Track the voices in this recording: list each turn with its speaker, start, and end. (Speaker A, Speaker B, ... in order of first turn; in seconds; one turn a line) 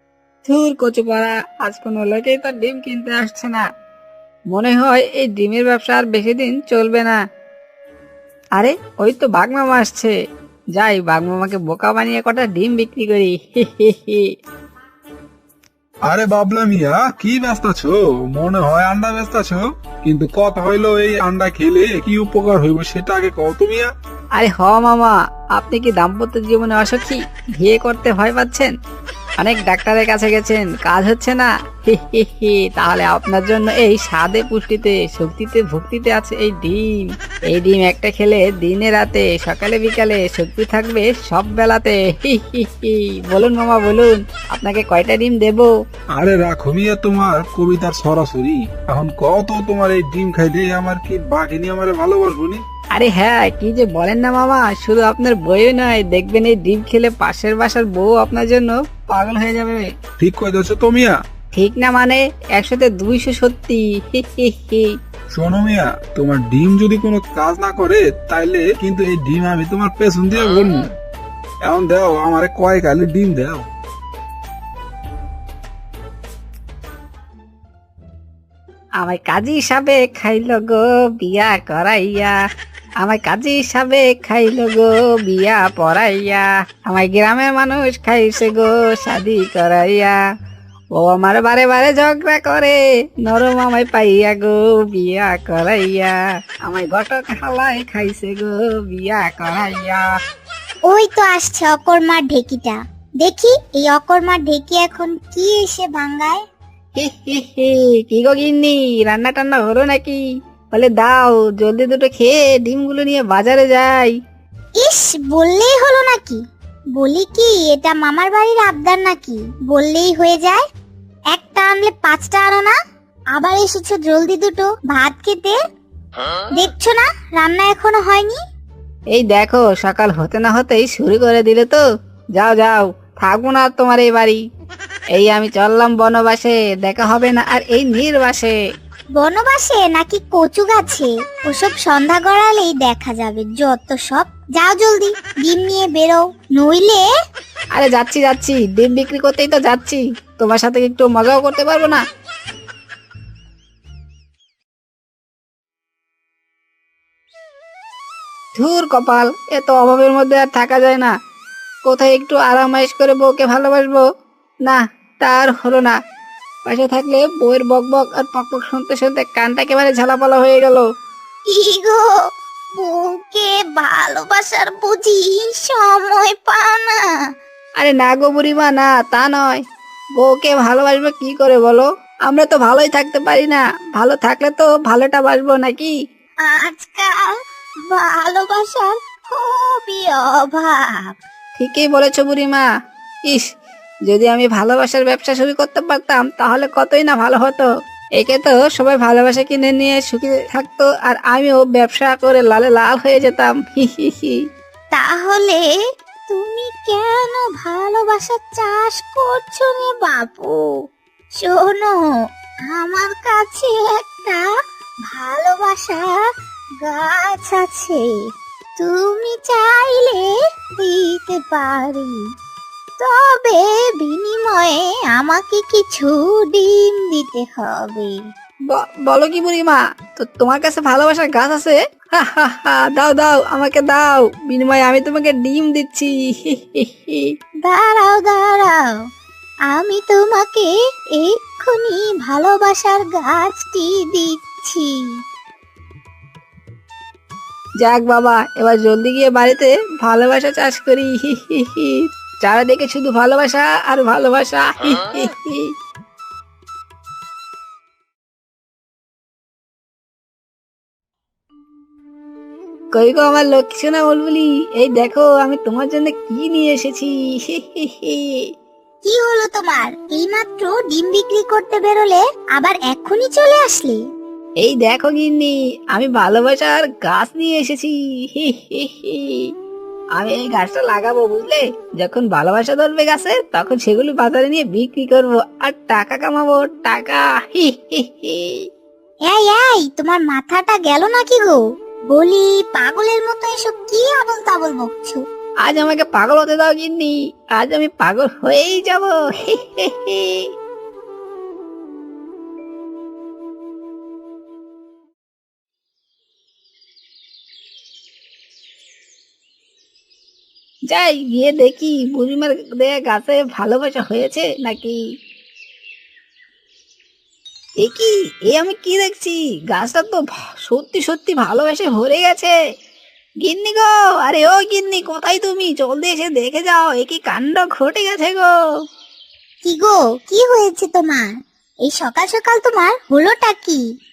Speaker A: 0.4-3.6
Speaker A: 4.5-7.2
Speaker A: 8.6-10.1
Speaker A: 10.7-14.3
Speaker B: 16.1-23.9
Speaker A: 24.4-28.7
Speaker A: 29.4-45.7
Speaker B: 46.1-52.6
Speaker A: 52.9-59.9
Speaker B: 60.2-61.1
Speaker A: 61.5-64.9
Speaker B: 65.3-70.9
Speaker B: 71.7-73.7
Speaker A: 79.0-82.3
Speaker A: 83.0-90.2
Speaker A: 91.0-100.0
Speaker C: 100.9-106.4
Speaker A: 107.0-110.2
Speaker A: 110.7-114.1
Speaker C: 114.8-116.4
Speaker C: 116.9-120.6
Speaker C: 121.3-122.7
Speaker C: 123.3-125.6
Speaker C: 126.5-128.4
Speaker A: 129.1-131.8
Speaker A: 132.3-134.4
Speaker A: 135.1-138.6
Speaker C: 139.2-147.1
Speaker A: 147.7-152.0
Speaker A: 158.6-161.1
Speaker A: 161.8-164.0
Speaker A: 164.6-165.9
Speaker A: 166.7-170.8
Speaker C: 171.5-172.1
Speaker C: 172.8-177.2
Speaker A: 177.8-179.6
Speaker A: 180.2-185.9
Speaker C: 186.4-187.3
Speaker C: 187.9-191.1
Speaker A: 191.6-192.7
Speaker A: 194.1-204.4
Speaker C: 204.9-205.6
Speaker C: 206.3-210.6
Speaker C: 211.4-212.0
Speaker C: 212.7-214.5
Speaker C: 215.1-216.2
Speaker C: 216.8-218.1
Speaker C: 218.8-222.2
Speaker C: 223.0-228.2
Speaker A: 228.7-237.3
Speaker C: 237.6-238.9
Speaker C: 239.7-245.0
Speaker A: 247.8-255.7
Speaker A: 262.9-268.5
Speaker C: 269.0-274.0
Speaker A: 274.6-279.5
Speaker A: 280.1-288.6
Speaker C: 289.3-295.2
Speaker A: 295.6-300.5
Speaker A: 310.9-315.0
Speaker A: 317.8-322.5
Speaker A: 323.4-328.5
Speaker C: 329.6-331.3
Speaker C: 331.8-333.8